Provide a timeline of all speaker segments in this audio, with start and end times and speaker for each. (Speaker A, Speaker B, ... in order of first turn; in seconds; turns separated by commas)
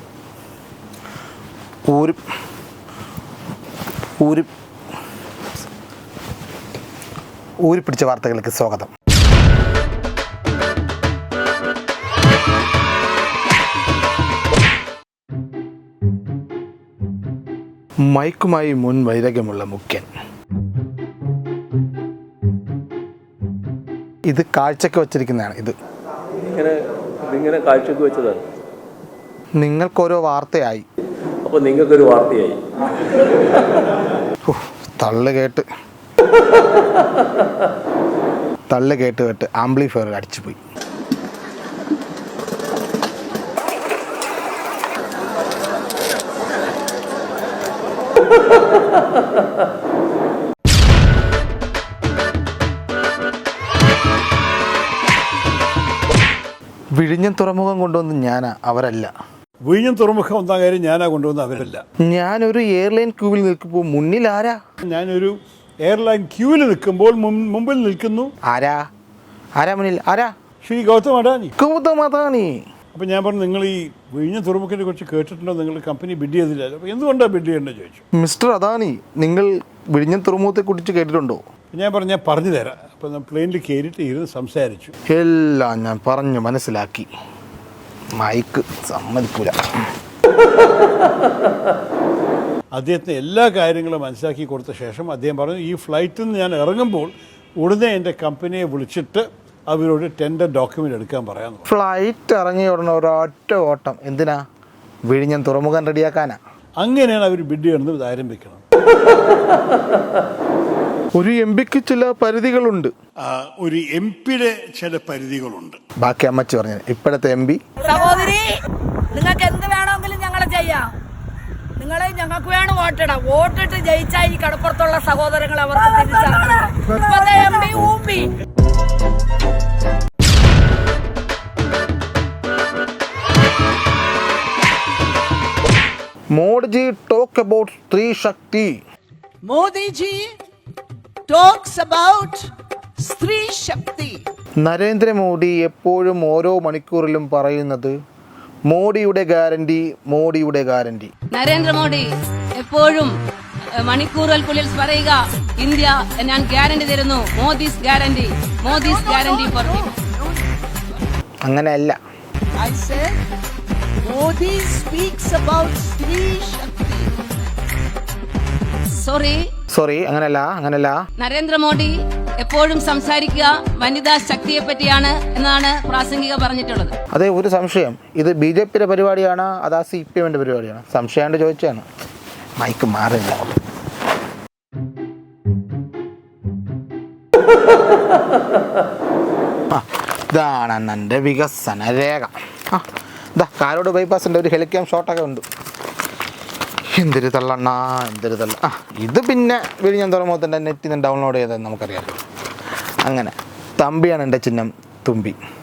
Speaker A: 1.9-2.2, Speaker A: 4.2-4.5, Speaker A: 7.6-8.9, Speaker A: 18.1-20.1, Speaker A: 24.3-25.8, Speaker B: 26.4-28.4, Speaker A: 29.6-30.9, Speaker B: 31.4-32.6, Speaker A: 34.5-35.7, Speaker A: 38.7-40.6, Speaker A: 57.0-59.1, Speaker C: 59.6-61.8, Speaker A: 62.0-64.6, Speaker C: 64.8-68.3, Speaker A: 68.5-68.8, Speaker A: 69.6-70.3, Speaker C: 70.6-71.5, Speaker A: 71.6-72.6, Speaker C: 72.9-78.0, Speaker A: 78.2-81.4, Speaker C: 81.7-84.9, Speaker A: 85.1-87.1, Speaker A: 88.2-89.6, Speaker C: 92.7-101.7, Speaker A: 101.7-104.4, Speaker A: 105.1-106.4, Speaker C: 106.8-108.6, Speaker A: 111.2-112.9, Speaker C: 113.2-115.8, Speaker A: 116.0-117.6, Speaker D: 117.8-118.5, Speaker D: 119.1-120.9, Speaker D: 121.8-128.3, Speaker A: 136.3-138.8, Speaker E: 139.4-140.3, Speaker E: 141.3-142.5, Speaker E: 143.0-144.2, Speaker A: 144.6-148.0, Speaker A: 148.7-151.1, Speaker F: 151.3-153.1, Speaker F: 153.8-159.9, Speaker E: 158.7-160.4, Speaker A: 161.5-162.0, Speaker E: 162.6-163.2, Speaker E: 164.0-167.2, Speaker F: 169.0-169.4, Speaker A: 169.7-171.0, Speaker F: 171.2-176.9, Speaker A: 177.1-181.9, Speaker A: 182.6-183.5, Speaker A: 189.7-195.4, Speaker A: 197.0-202.1, Speaker A: 203.0-205.4